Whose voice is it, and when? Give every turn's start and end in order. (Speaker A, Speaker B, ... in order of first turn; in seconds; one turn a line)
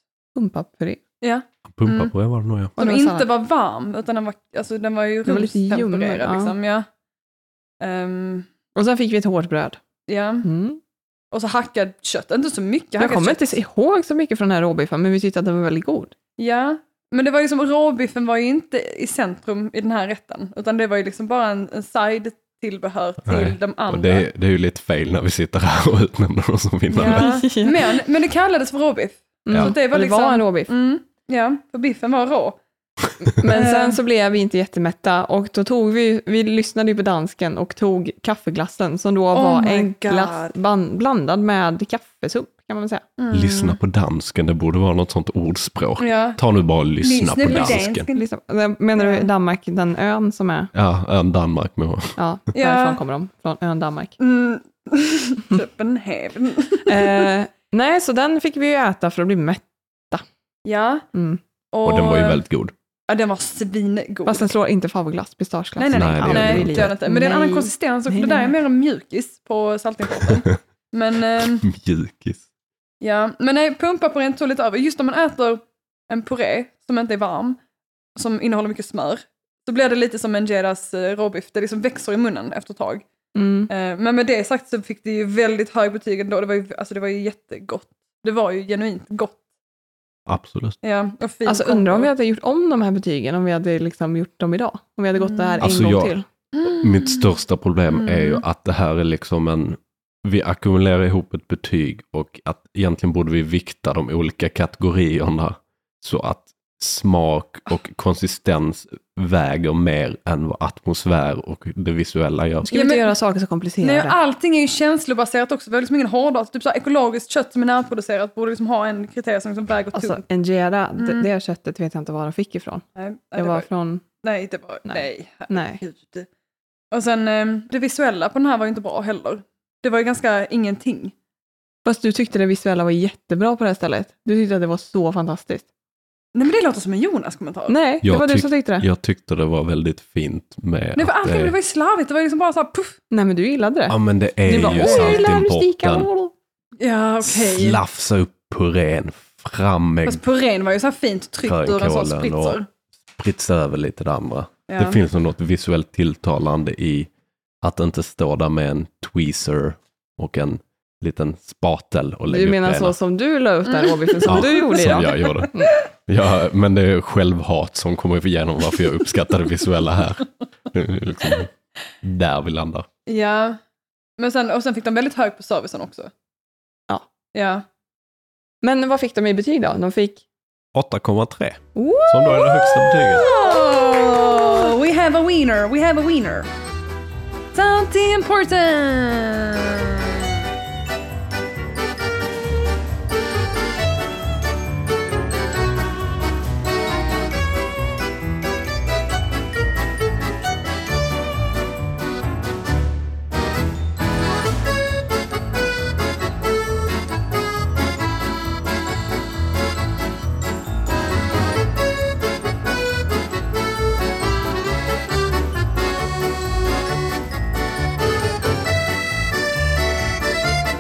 Speaker A: 0.3-1.0
Speaker B: 1.2-2.1
Speaker C: 1.7-2.8
Speaker B: 2.8-6.8
Speaker A: 2.8-3.3
Speaker A: 5.3-6.5
Speaker B: 7.8-8.5
Speaker A: 8.8-9.8
Speaker B: 10.1-10.5
Speaker A: 10.4-10.8
Speaker B: 11.3-13.6
Speaker A: 13.0-16.1
Speaker B: 16.4-24.3
Speaker C: 23.2-27.4
Speaker B: 26.9-32.6
Speaker A: 26.9-28.0
Speaker A: 29.5-30.7
Speaker A: 33.2-43.0
Speaker B: 33.5-34.0
Speaker B: 39.3-40.5
Speaker B: 43.2-43.8
Speaker C: 43.3-48.1
Speaker B: 46.0-46.4
Speaker B: 47.0-48.2
Speaker A: 47.5-50.7
Speaker B: 49.0-49.3
Speaker C: 50.7-52.2
Speaker A: 52.2-54.1
Speaker B: 52.5-53.0
Speaker B: 54.2-57.3
Speaker A: 56.9-60.2
Speaker B: 60.6-61.1
Speaker A: 61.1-61.4
Speaker B: 61.7-62.4
Speaker C: 61.8-62.7
Speaker B: 63.1-64.5
Speaker A: 64.3-68.5
Speaker B: 65.8-71.7
Speaker C: 65.9-67.0
Speaker C: 71.6-72.4
Speaker B: 73.0-77.6
Speaker B: 78.2-83.0
Speaker A: 83.3-83.7
Speaker B: 83.7-89.4
Speaker C: 90.3-90.8
Speaker B: 90.8-92.1
Speaker A: 91.5-96.2
Speaker B: 95.2-95.6
Speaker C: 95.6-112.7
Speaker B: 96.6-97.3
Speaker B: 98.0-98.4
Speaker A: 112.7-114.2
Speaker B: 112.7-113.2
Speaker B: 113.8-120.2
Speaker A: 119.9-122.8
Speaker B: 121.0-121.3
Speaker B: 123.0-123.7
Speaker A: 123.4-124.0
Speaker B: 124.2-126.3
Speaker A: 124.9-125.8
Speaker B: 126.9-131.1
Speaker A: 131.8-135.6
Speaker B: 136.3-137.8
Speaker A: 137.7-138.9
Speaker C: 138.0-141.6
Speaker B: 141.0-143.0
Speaker A: 143.1-146.3
Speaker C: 143.9-146.1
Speaker B: 144.6-145.4
Speaker B: 146.8-147.8
Speaker C: 147.2-150.2
Speaker B: 150.1-152.7
Speaker C: 151.4-152.6
Speaker C: 153.1-157.1
Speaker B: 154.7-155.0
Speaker C: 157.6-162.9
Speaker A: 162.3-165.8
Speaker B: 163.7-165.7
Speaker C: 164.3-171.5
Speaker C: 172.0-172.9
Speaker B: 173.1-173.6
Speaker B: 174.2-176.1
Speaker B: 177.3-177.6
Speaker A: 178.6-180.2
Speaker C: 180.7-183.3
Speaker A: 181.8-183.1
Speaker B: 182.4-186.5
Speaker B: 187.5-190.3